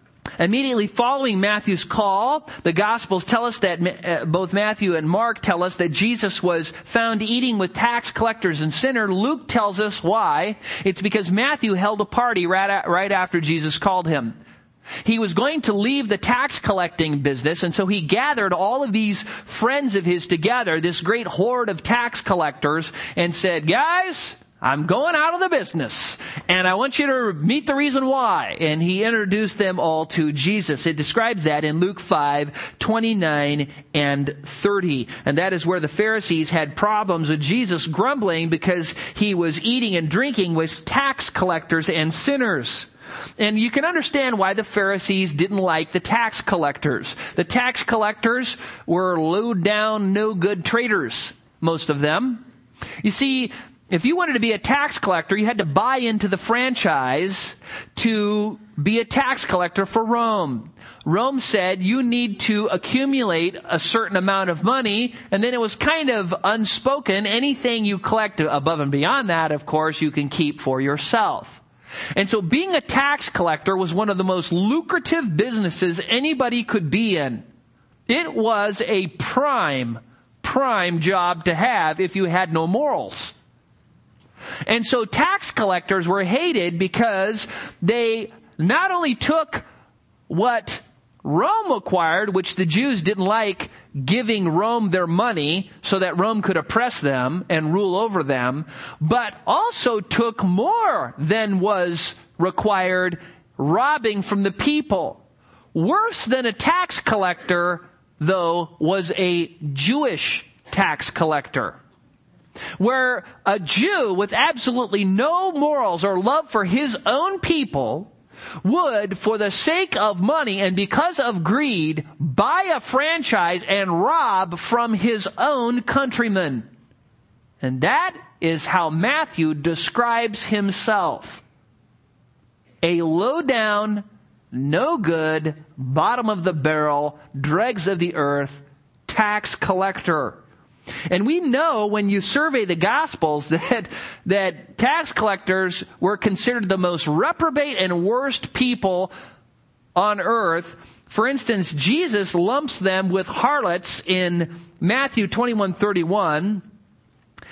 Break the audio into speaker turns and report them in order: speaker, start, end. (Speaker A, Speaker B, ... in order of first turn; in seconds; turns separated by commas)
Speaker A: 0.4-14.3, Speaker A: 15.0-42.9, Speaker A: 43.4-52.4, Speaker A: 53.0-71.6, Speaker A: 72.2-77.4, Speaker A: 78.1-83.3, Speaker A: 84.7-89.6, Speaker A: 90.3-105.2, Speaker A: 105.7-111.8, Speaker A: 112.8-118.1, Speaker A: 118.6-126.7, Speaker A: 127.6-131.4, Speaker A: 132.8-140.4, Speaker A: 141.1-149.1, Speaker A: 149.9-156.6